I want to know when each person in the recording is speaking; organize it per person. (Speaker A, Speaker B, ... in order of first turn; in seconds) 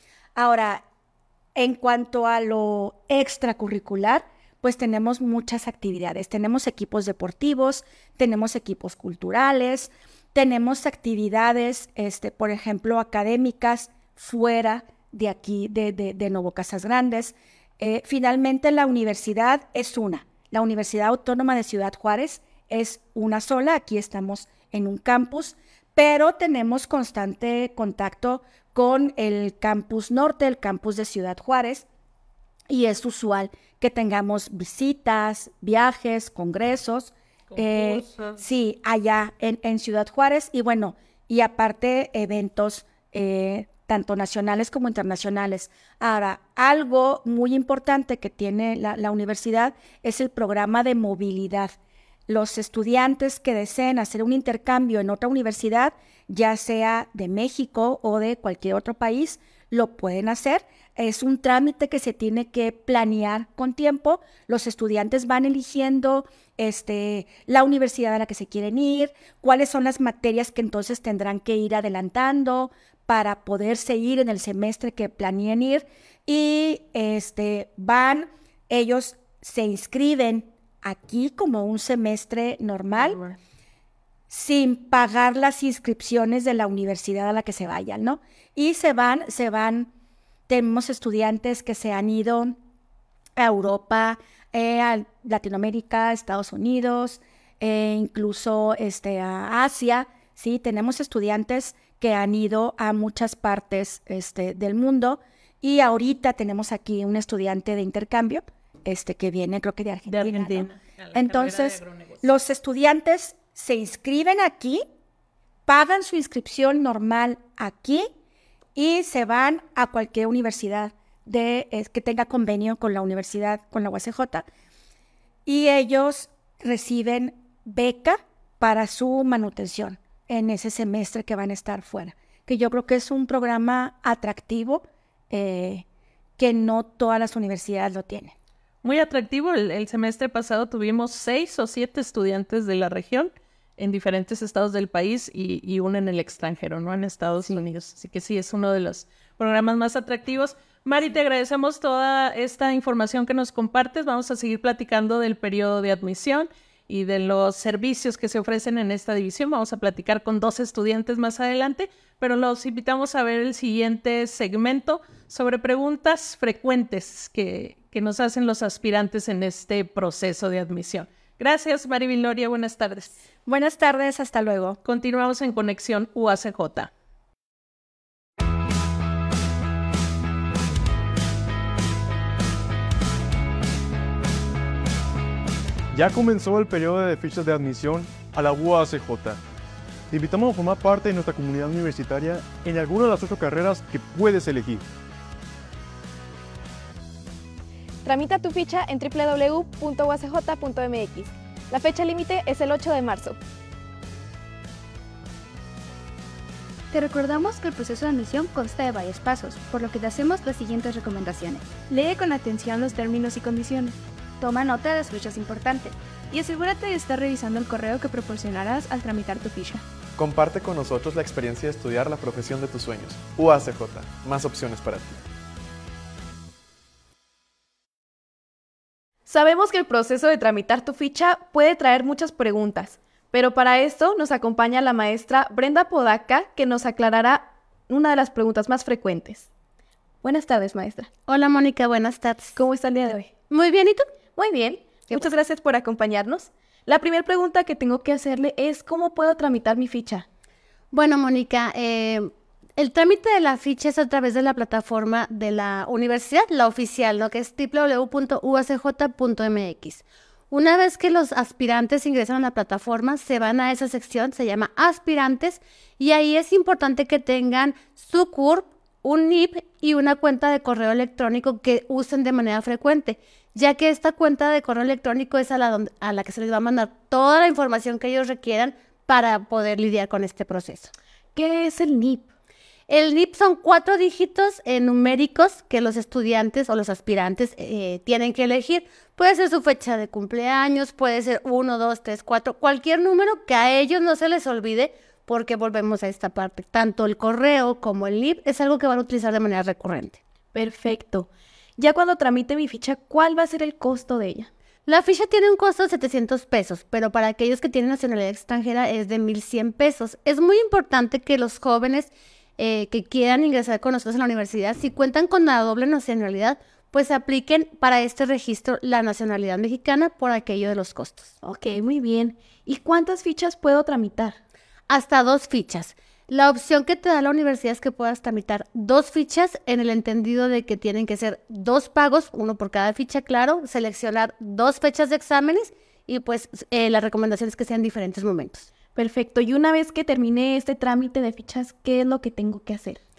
Speaker A: 0.3-0.8, 1.6-31.9, 32.7-51.8, 52.3-83.2, 84.3-89.9, 90.5-92.5, 93.4-114.8, 115.7-118.1, 118.8-124.5, 125.5-135.8, 136.4-138.3, 173.5-174.8
Speaker B: 37.5-38.2, 110.1-112.2, 138.8-173.2, 174.8-176.9
Speaker C: 185.9-189.4, 190.1-194.8
Speaker D: 198.1-203.4, 229.3-239.5, 240.2-241.1, 242.6-243.3, 244.3-250.2, 281.4-282.2, 300.5-304.5, 321.4-324.4, 338.9-343.0
Speaker E: 206.9-215.9, 218.5-218.8
Speaker F: 220.2-225.2
Speaker G: 241.3-242.6, 243.5-244.1, 250.9-280.9, 282.9-300.2, 304.9-321.3, 324.9-338.7